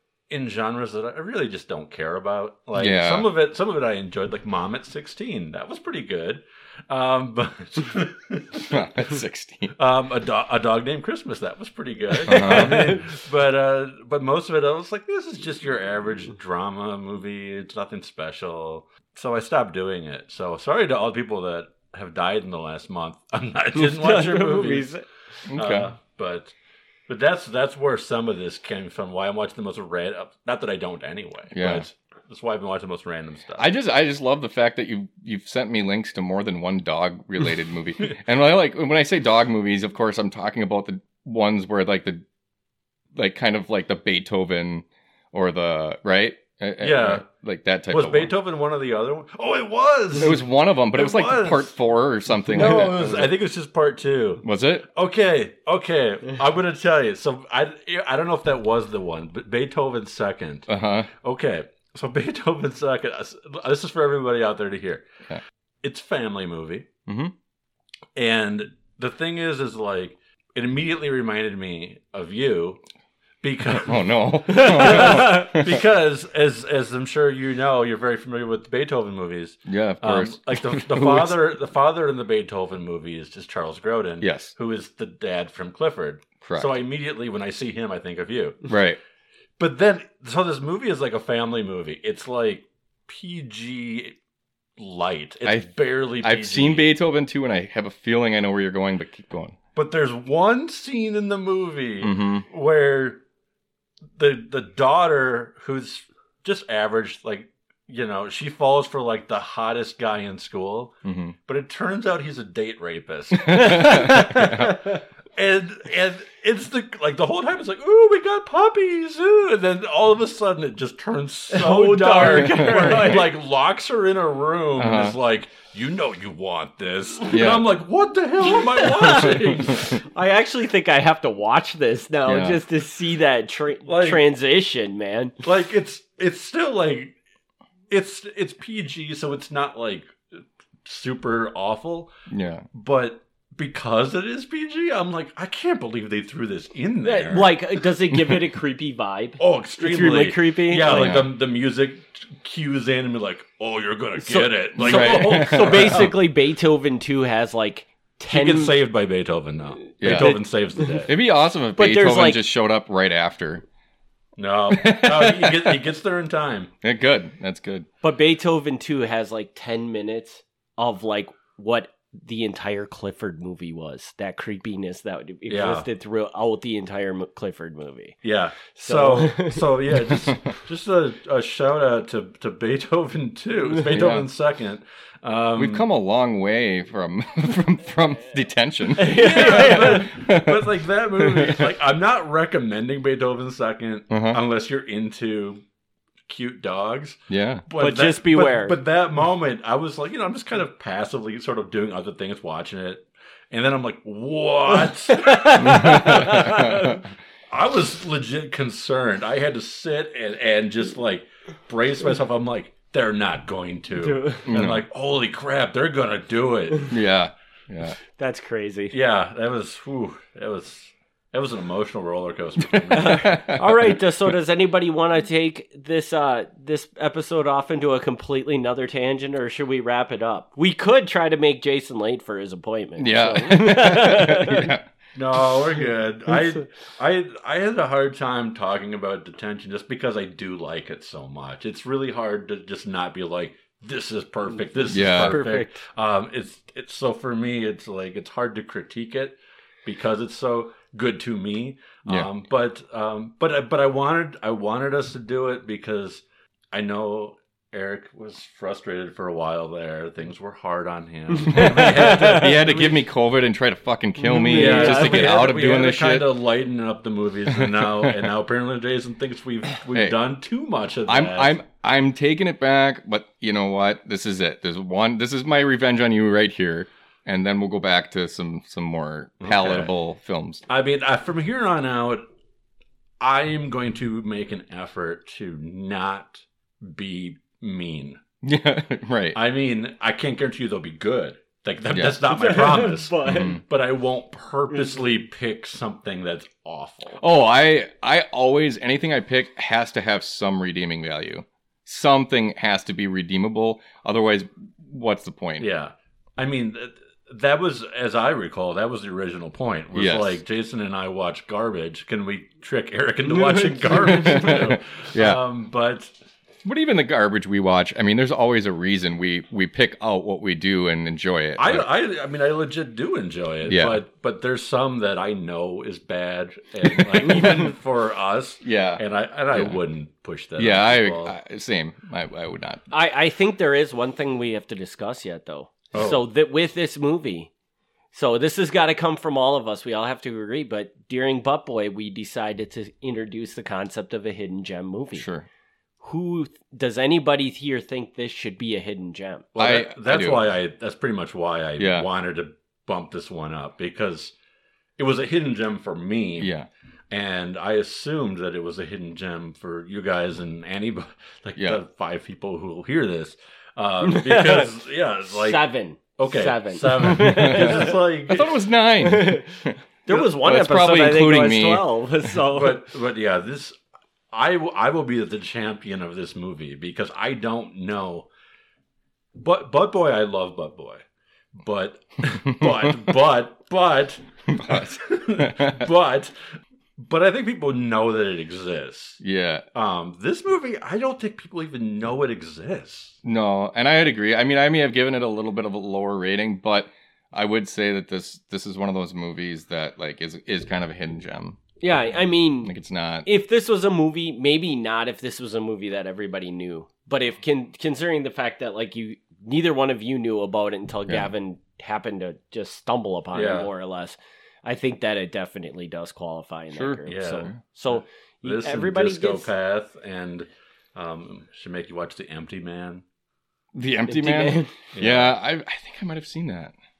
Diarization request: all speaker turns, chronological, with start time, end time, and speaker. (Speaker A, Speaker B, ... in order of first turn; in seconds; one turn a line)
Speaker A: 0.3-8.8
Speaker B: 2.8-3.3
Speaker B: 8.6-9.8
Speaker A: 9.8-24.9
Speaker B: 12.2-13.0
Speaker C: 23.8-25.0
Speaker B: 25.5-25.9
Speaker A: 25.5-26.5
Speaker A: 27.1-33.7
Speaker B: 31.5-31.9
Speaker B: 33.6-42.2
Speaker B: 43.1-48.3
Speaker A: 46.8-47.2
Speaker A: 47.9-51.7
Speaker B: 50.2-53.4
Speaker A: 52.5-60.7
Speaker B: 54.4-54.9
Speaker B: 60.7-61.1
Speaker A: 61.2-65.1
Speaker A: 65.8-66.9
Speaker B: 67.1-67.3
Speaker A: 68.2-72.8
Speaker A: 73.4-88.7
Speaker B: 73.8-75.8
Speaker C: 74.7-75.5
Speaker B: 79.7-81.4
Speaker B: 84.2-84.5
Speaker B: 86.4-86.8
Speaker B: 88.7-89.0
Speaker A: 89.6-94.2
Speaker A: 94.8-96.9
Speaker B: 96.2-99.6
Speaker A: 99.8-103.2
Speaker B: 102.0-102.5
Speaker A: 104.2-110.9
Speaker B: 111.0-111.3
Speaker A: 111.5-130.0
Speaker B: 113.5-114.7
Speaker C: 113.5-114.8
Speaker C: 121.5-123.3
Speaker B: 124.8-125.2
Speaker B: 127.3-127.7
Speaker C: 128.5-135.3
Speaker B: 132.2-132.6
Speaker A: 133.9-134.2
Speaker A: 135.4-137.2
Speaker A: 137.9-140.2
Speaker A: 140.8-142.1
Speaker B: 142.3-142.7
Speaker A: 142.7-147.7
Speaker C: 147.0-151.2
Speaker A: 149.4-156.2
Speaker B: 150.9-151.3
Speaker C: 154.2-158.7
Speaker B: 154.8-156.1
Speaker A: 158.3-161.1
Speaker B: 160.0-160.4
Speaker C: 160.1-161.1
Speaker B: 161.1-163.6
Speaker C: 161.8-162.4
Speaker A: 164.4-166.7
Speaker B: 164.7-165.9
Speaker B: 166.8-167.9
Speaker C: 168.0-178.2
Speaker A: 175.5-175.9
Speaker A: 178.2-185.8
Speaker C: 178.8-179.8
Speaker B: 183.9-184.3
Speaker B: 185.6-191.7
Speaker C: 189.0-190.1
Speaker A: 189.1-195.6
Speaker B: 194.1-194.4
Speaker A: 196.3-206.9
Speaker B: 197.3-197.7
Speaker C: 197.8-198.8
Speaker C: 205.1-206.9
Speaker B: 205.6-207.0
Speaker A: 207.5-216.9
Speaker C: 214.0-214.5
Speaker B: 214.5-214.9
Speaker B: 216.9-218.0
Speaker C: 218.2-218.9
Speaker A: 218.9-223.5
Speaker B: 222.7-223.9
Speaker C: 222.9-234.7
Speaker B: 233.0-234.9
Speaker A: 235.2-263.0
Speaker B: 244.9-245.4
Speaker C: 245.1-245.8
Speaker C: 261.4-262.6
Speaker B: 261.5-266.3
Speaker C: 264.2-265.4
Speaker A: 264.4-271.6
Speaker B: 267.5-268.3
Speaker B: 271.1-280.6
Speaker A: 279.4-279.9
Speaker A: 280.7-282.2
Speaker A: 283.2-288.2
Speaker B: 288.4-289.4
Speaker A: 289.3-297.2
Speaker B: 291.9-292.3
Speaker C: 292.3-293.6
Speaker B: 293.2-293.6
Speaker B: 297.2-305.7
Speaker A: 305.6-316.1
Speaker B: 309.9-310.4
Speaker C: 313.3-314.5
Speaker B: 314.0-315.4
Speaker B: 316.6-321.9
Speaker A: 321.6-331.3
Speaker B: 323.7-324.0
Speaker B: 326.8-327.7
Speaker B: 328.6-329.8
Speaker B: 330.6-332.8
Speaker C: 332.9-337.5
Speaker A: 335.9-336.2
Speaker C: 338.1-345.3
Speaker B: 345.2-345.5
Speaker C: 346.0-349.5
Speaker A: 349.6-354.3
Speaker B: 349.6-350.5
Speaker B: 351.8-352.1
Speaker A: 355.0-356.5
Speaker B: 356.4-356.7
Speaker A: 357.1-368.6
Speaker B: 361.6-361.8
Speaker C: 364.0-364.7
Speaker C: 365.3-368.0
Speaker B: 367.1-371.9
Speaker C: 369.0-372.9
Speaker A: 372.5-373.8
Speaker A: 374.3-378.3
Speaker A: 379.4-381.0
Speaker A: 381.6-386.3
Speaker B: 384.5-385.9
Speaker A: 387.0-389.2
Speaker B: 389.2-389.6
Speaker A: 389.7-393.2
Speaker B: 393.2-403.3
Speaker C: 401.8-402.7
Speaker C: 403.2-419.5
Speaker B: 411.1-411.3
Speaker A: 413.3-413.7
Speaker B: 416.7-417.6
Speaker A: 417.1-423.0
Speaker B: 423.7-426.7
Speaker C: 424.1-424.7
Speaker A: 424.9-425.4